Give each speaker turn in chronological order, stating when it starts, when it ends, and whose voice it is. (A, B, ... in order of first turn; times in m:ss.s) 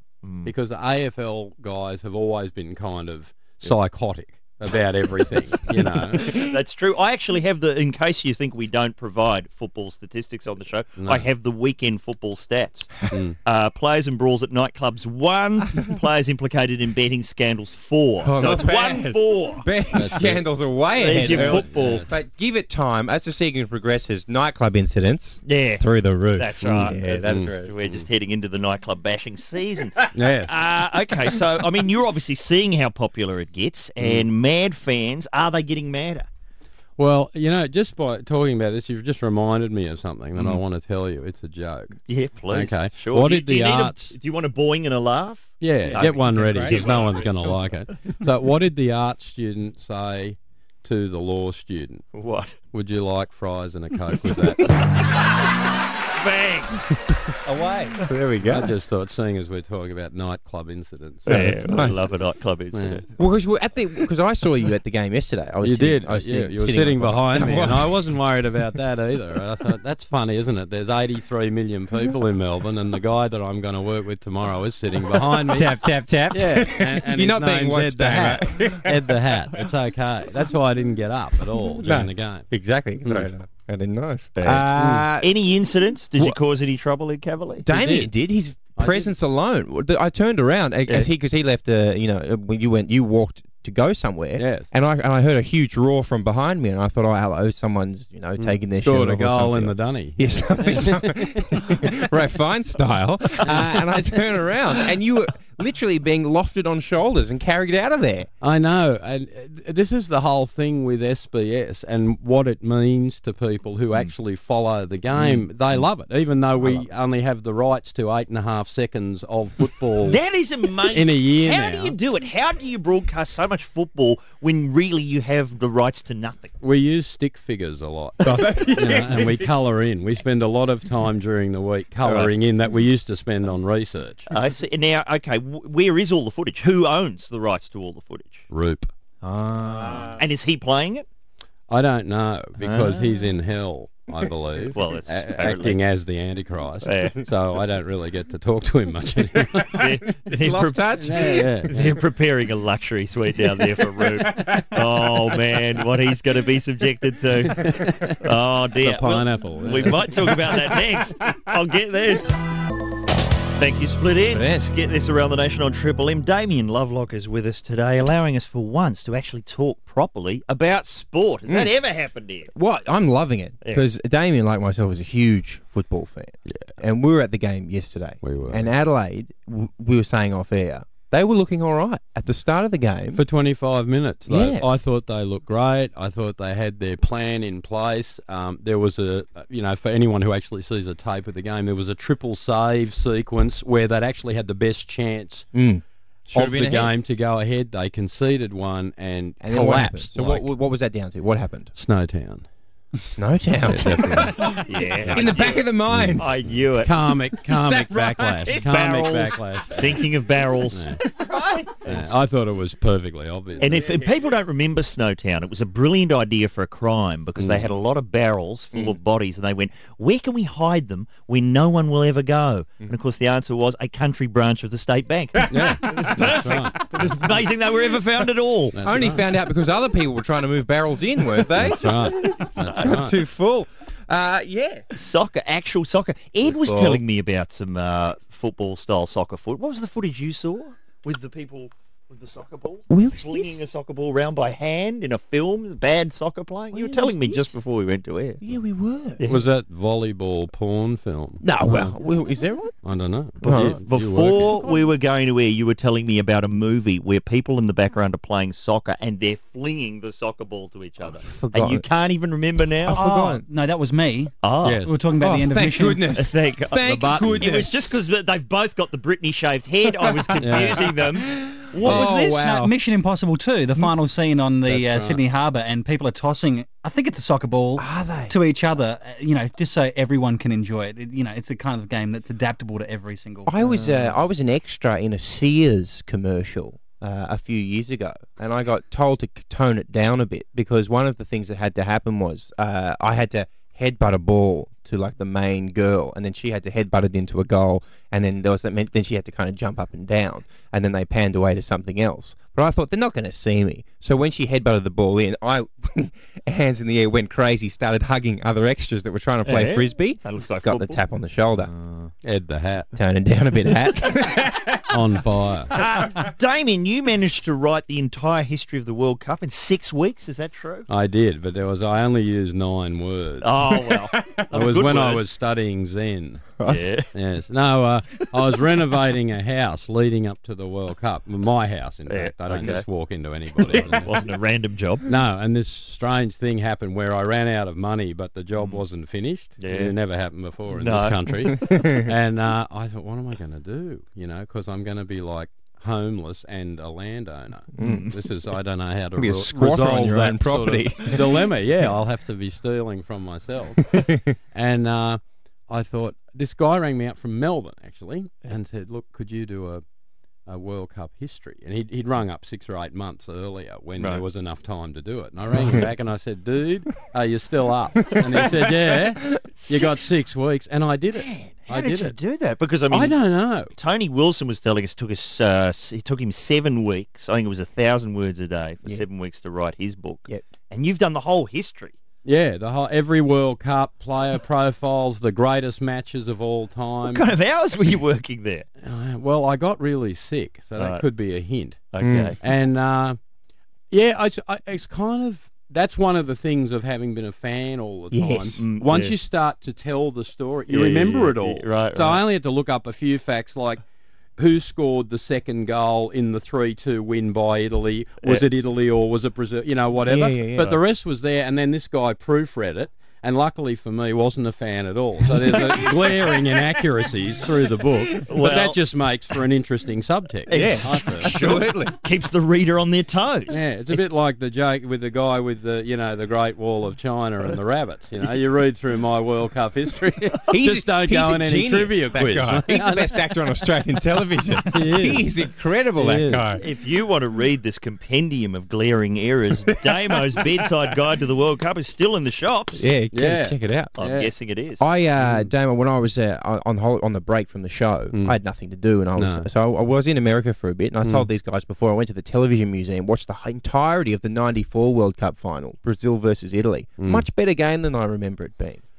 0:00.2-0:00.5 A
0:00.4-0:06.3 B
0:06.2-0:19.7 A
0:11.0-0:11.3 B
0:13.1-0:13.4 B
0:18.2-0:27.7 C
0:19.9-0:22.1 B
0:20.9-0:22.1 A
0:25.4-0:36.3 A
0:26.6-0:28.1 B
0:30.1-0:30.5 B
0:34.0-0:34.3 B
0:37.0-0:42.0 B
0:40.4-0:40.6 A
0:42.1-0:47.8 A
0:42.5-0:44.2 B
0:45.6-0:52.1 B
0:46.5-0:46.8 C
0:52.1-0:52.6 A
0:52.7-0:54.7 B
0:56.2-0:56.8 A
0:57.5-0:57.9 D
0:58.0-0:58.7 C
0:58.5-1:01.5 B
1:01.3-1:02.0 C
1:01.3-1:03.1 A
1:02.7-1:03.0 B
1:03.2-1:08.0 C
1:05.6-1:15.8 B
1:15.5-1:19.1 C
1:16.3-1:22.5 B
1:21.8-1:25.3 C
1:23.0-1:23.3 B
1:24.4-1:27.7 A
1:24.8-1:25.1 B
1:27.7-1:48.3 C
1:27.7-1:28.1 B
1:28.8-1:29.1 B
1:34.4-1:34.7 B
1:38.4-1:41.8 B
1:43.5-1:43.7 B
1:48.4-2:00.2 B
1:55.2-1:55.8 A
2:00.0-2:06.5 A
2:00.9-2:02.0 B
2:06.6-2:14.3 B
2:08.2-2:09.5 C
2:12.0-2:12.3 A
2:14.3-2:18.5 A
2:18.5-2:18.9 B
2:19.2-2:21.1 A
2:19.8-2:20.2 C
2:21.7-2:29.9 B
2:22.6-2:23.1 A
2:24.6-2:25.8 A
2:26.8-2:27.2 A
2:29.6-2:42.4 A
2:30.3-2:31.5 C
2:31.0-2:31.9 B
2:37.4-2:38.2 B
2:38.8-2:40.6 B
2:43.6-2:52.5 A
2:44.3-2:44.7 C
2:52.5-3:03.2 C
2:58.2-2:58.7 B
3:03.1-3:15.5 B
3:04.3-3:04.6 C
3:15.5-3:16.9 C
3:16.3-3:20.5 B
3:19.4-3:21.7 C
3:21.8-3:22.4 B
3:23.1-3:26.3 C
3:23.7-3:26.3 B
3:24.5-3:26.9 A
3:26.8-3:30.0 B
3:27.5-3:28.6 C
3:28.5-3:30.9 A
3:30.7-3:31.0 B
3:31.2-3:31.8 C
3:31.9-3:32.2 A
3:31.9-3:33.9 B
3:33.6-3:48.8 A
3:33.7-3:34.0 C
3:37.4-3:37.7 B
3:45.5-3:46.9 B
3:45.5-3:47.1 C
3:48.7-3:49.3 B
3:48.8-3:54.8 C
3:51.5-3:53.2 B
3:52.6-3:52.9 A
3:54.9-4:08.4 A
3:56.5-3:57.0 C
4:02.9-4:03.6 C
4:06.7-4:07.6 C
4:08.4-4:09.2 C
4:09.2-4:09.4 A
4:09.3-4:12.0 B
4:11.4-4:12.8 C
4:12.8-4:14.6 B
4:13.4-4:13.8 C
4:13.4-4:23.0 A
4:14.4-4:14.8 C
4:21.2-4:21.8 C
4:22.9-4:23.4 C
4:22.9-4:24.3 D
4:24.4-4:24.8 A
4:24.6-4:25.0 B
4:24.9-4:26.0 D
4:25.2-4:28.0 C
4:26.2-4:32.5 A
4:26.8-4:27.6 B
4:30.3-4:32.7 C
4:30.4-4:30.9 B
4:31.9-4:43.9 D
4:34.7-4:35.2 B
4:37.8-4:38.3 C
4:43.5-5:11.7 C
5:09.4-5:11.0 A
5:11.6-5:12.1 A
5:12.2-5:12.9 B
5:12.9-5:14.8 C
5:14.9-5:15.7 B
5:15.7-5:20.9 A
5:20.9-5:23.5 B
5:23.4-5:25.3 A
5:24.5-5:26.6 B
5:26.6-5:26.8 C
5:26.6-5:27.1 A
5:27.1-5:34.2 B
5:32.1-5:32.9 A
5:33.6-5:35.0 A
5:35.1-5:53.8 B
5:38.6-5:38.8 A
5:39.6-5:40.0 A
5:40.7-5:41.6 A
5:41.5-5:42.0 C
5:47.8-5:48.1 C
5:47.8-5:48.2 A
5:49.2-5:51.5 C
5:53.9-5:54.2 C
5:54.5-5:59.8 B
6:00.5-6:12.2 B
6:04.0-6:04.2 A
6:09.5-6:09.9 A
6:11.1-6:22.0 A
6:12.9-6:13.7 B
6:22.2-6:27.3 B
6:27.1-6:28.7 A
6:28.8-6:31.9 B
6:30.8-6:31.0 A
6:31.9-6:32.4 A
6:32.0-6:32.4 C
6:32.4-6:33.2 B
6:33.9-6:43.8 B
6:38.1-6:38.6 C
6:38.6-6:39.2 A
6:40.7-6:42.2 A
6:44.4-7:01.6 B
6:50.1-6:50.8 C
6:58.3-6:58.8 A
7:00.5-7:03.6 A
7:00.5-7:01.9 C
7:03.5-7:13.3 B
7:10.5-7:16.6 C
7:14.7-7:15.3 B
7:16.0-7:16.5 B
7:16.6-7:22.9 A
7:22.8-7:23.9 C
7:23.1-7:24.3 B
7:24.0-7:24.9 A
7:24.8-7:38.8 C
7:25.2-7:25.5 B
7:29.2-7:29.5 B
7:31.0-7:31.3 B
7:37.0-7:37.3 B